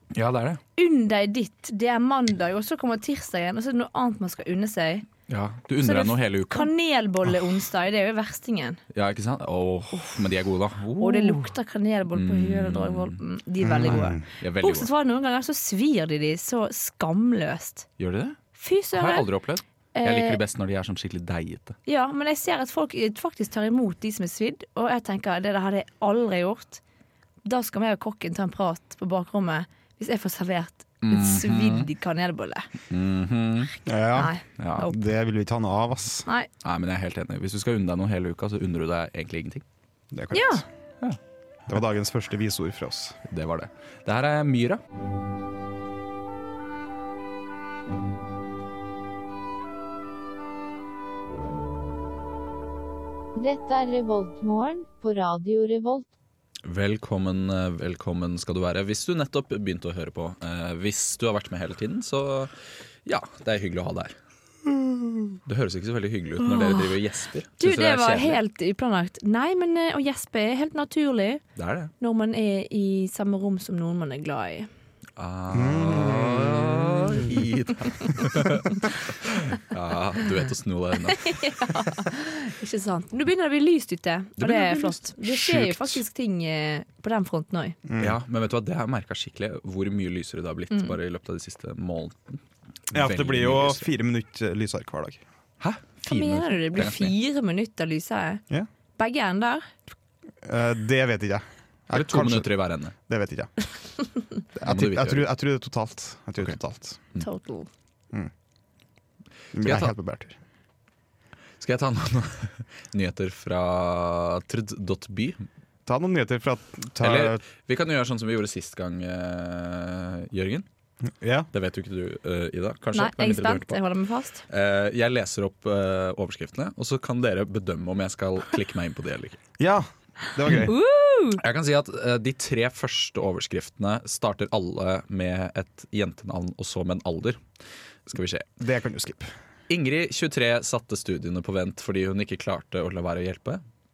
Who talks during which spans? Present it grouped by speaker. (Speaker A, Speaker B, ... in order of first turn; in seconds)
Speaker A: 0.1-0.6, 5.3-6.7, 8.9-11.5, 12.1-13.2, 13.9-14.9, 18.0-18.4, 18.9-21.8, 31.0-31.9, 32.9-33.7, 34.6-34.9, 36.6-39.6, 43.3-44.8, 56.6-62.5, 63.0-64.1, 65.5-68.4, 71.5-71.9, 75.2-81.6, 84.4-86.0, 88.0-93.9, 95.6-97.1, 101.9-102.9, 104.6-105.3, 109.6-109.9, 111.6-115.4, 117.0-120.7, 121.5-123.8, 124.5-129.4, 131.4-137.4, 138.1-138.4, 139.7-143.6
Speaker B: 0.8-5.1, 5.8-8.8, 11.0-17.9, 18.6-19.3, 19.9-20.4, 21.9-26.8, 27.4-32.7, 34.1-34.9, 40.3-40.6, 66.5-66.9, 67.6-71.4, 72.0-74.7, 81.2-87.8, 96.0-98.4, 99.0-99.7, 107.2-107.7, 122.9-124.4, 130.4-131.4
Speaker C: 13.6-14.2, 33.9-36.3, 40.1-40.6, 41.7-43.2, 75.5-77.3, 87.8-88.2, 92.9-95.2, 100.4-103.5, 104.5-107.0, 109.5-110.4, 115.8-117.4, 121.2-121.5, 129.6-130.7, 138.6-139.3
Speaker D: 53.4-56.0